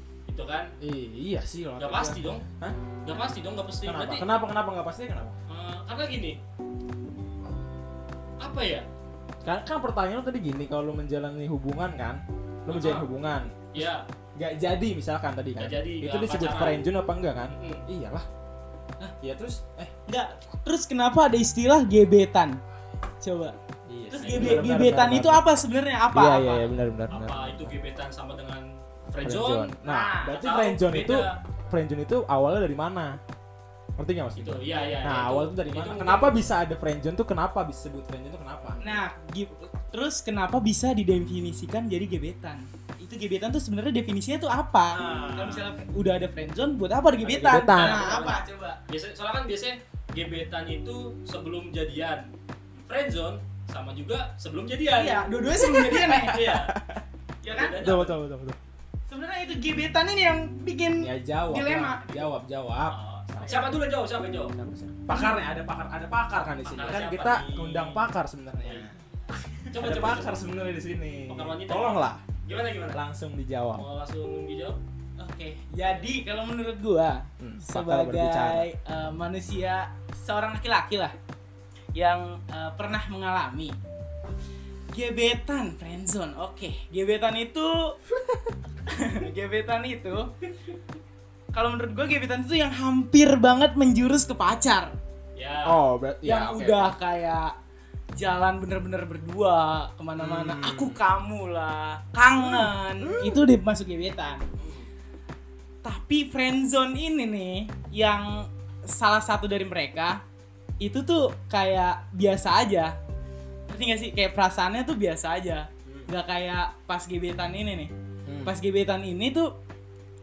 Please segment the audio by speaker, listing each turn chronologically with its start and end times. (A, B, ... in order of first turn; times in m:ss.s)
0:00.3-0:00.7 A
0:00.8-0:02.8 B
0:01.8-0:02.5 A
0:03.0-0:04.3 A
0:03.8-0:05.4 B
0:05.5-0:06.4 A
0:08.4-0:08.9 A
0:09.4-0:18.3 B
0:12.7-0:13.1 A
0:13.7-0:14.1 A
0:15.6-0:16.8 A
0:17.6-0:17.8 A
0:19.2-0:19.9 B
0:20.1-0:22.6 C
0:23.2-0:23.6 C
0:23.9-0:25.5 B
0:24.1-0:26.7 C
0:24.2-0:24.7 A
0:26.1-0:27.7 B
0:27.1-0:29.8 A
0:29.2-0:33.2 B
0:29.8-0:30.4 C
0:30.3-0:31.4 A
0:34.0-0:39.0 B
0:34.4-0:36.4 A
0:38.8-0:48.8 C
0:44.9-0:45.7 B
0:47.2-0:48.1 B
0:47.7-0:52.3 A
0:52.8-0:55.3 A
0:54.9-0:56.5 C
0:55.6-0:57.0 B
0:56.1-0:56.8 A
0:57.4-0:57.8 C
0:57.5-0:58.2 A
0:57.7-0:58.6 B
0:59.1-1:02.3 C
1:01.0-1:03.7 B
1:02.9-1:04.5 A
1:04.5-1:09.0 B
1:05.1-1:05.4 C
1:06.7-1:08.0 A
1:09.7-1:10.4 A
1:09.7-1:12.3 B
1:11.3-1:13.0 A
1:12.9-1:13.9 B
1:13.8-1:14.8 A
1:15.2-1:21.1 C
1:17.4-1:18.7 B
1:22.0-1:23.8 C
1:24.9-1:28.0 C
1:28.9-1:30.3 C
1:31.5-1:34.9 C
1:35.4-1:35.8 A
1:35.6-1:36.9 B
1:36.2-1:37.5 C
1:38.2-1:44.5 C
1:40.2-1:41.0 B
1:42.4-1:43.4 B
1:44.6-1:44.9 A
1:45.8-1:50.2 C
1:50.8-1:53.0 C
1:53.7-1:57.9 C
1:58.3-1:58.6 B
1:58.4-1:59.5 C